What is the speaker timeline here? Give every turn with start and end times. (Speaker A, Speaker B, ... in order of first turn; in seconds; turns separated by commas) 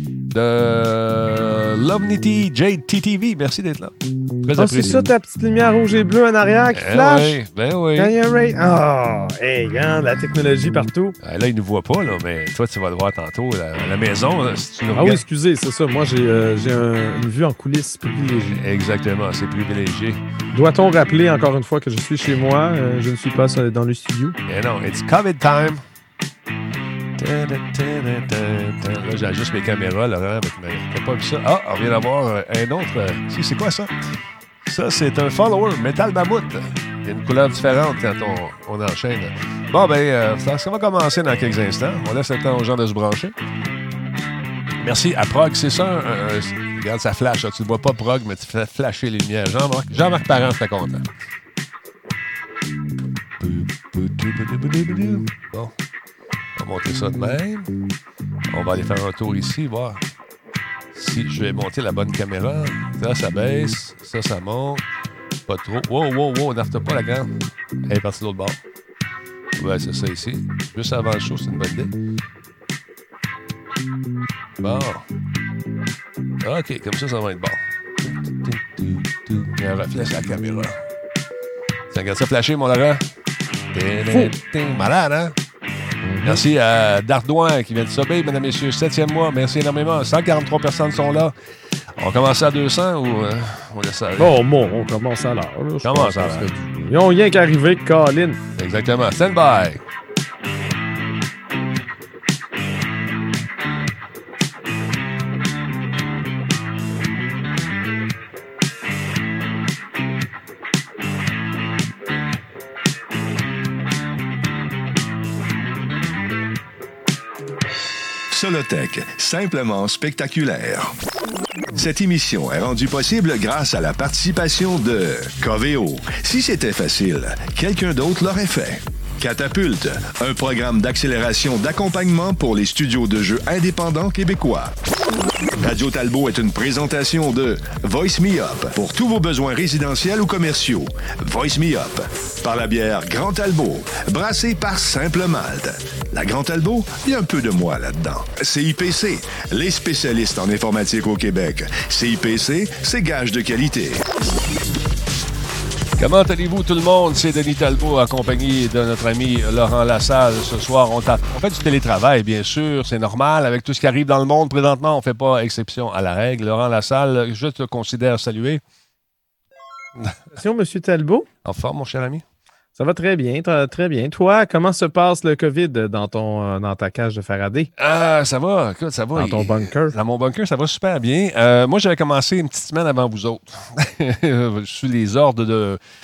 Speaker A: 0.3-5.1, Speaker B: 4.6-7.4, Speaker A: 6.7-8.1, Speaker B: 8.0-11.2, Speaker A: 11.2-15.2, Speaker B: 14.9-18.6, Speaker A: 18.5-20.2, Speaker B: 20.5-24.4, Speaker A: 24.5-25.8, Speaker A: 27.2-33.9, Speaker A: 34.6-43.4, Speaker A: 44.8-51.1, Speaker A: 53.4-55.7, Speaker A: 56.6-57.7, Speaker A: 58.5-60.0, Speaker A: 60.9-64.8, Speaker A: 65.5-68.6, Speaker A: 69.5-72.0, Speaker A: 74.6-75.0, Speaker A: 76.4-80.8, Speaker A: 81.9-83.1, Speaker A: 83.7-85.4, Speaker B: 84.1-84.3, Speaker B: 86.0-86.4, Speaker A: 86.2-91.3, Speaker A: 91.8-94.3, Speaker B: 94.2-98.4, Speaker A: 95.8-96.5, Speaker A: 98.6-99.8, Speaker C: 118.3-120.9, Speaker C: 121.7-134.8, Speaker C: 135.6-154.1, Speaker A: 156.0-168.6, Speaker B: 170.3-171.3, Speaker A: 171.4-172.2, Speaker B: 172.8-177.7, Speaker A: 177.8-185.8, Speaker B: 179.2-179.9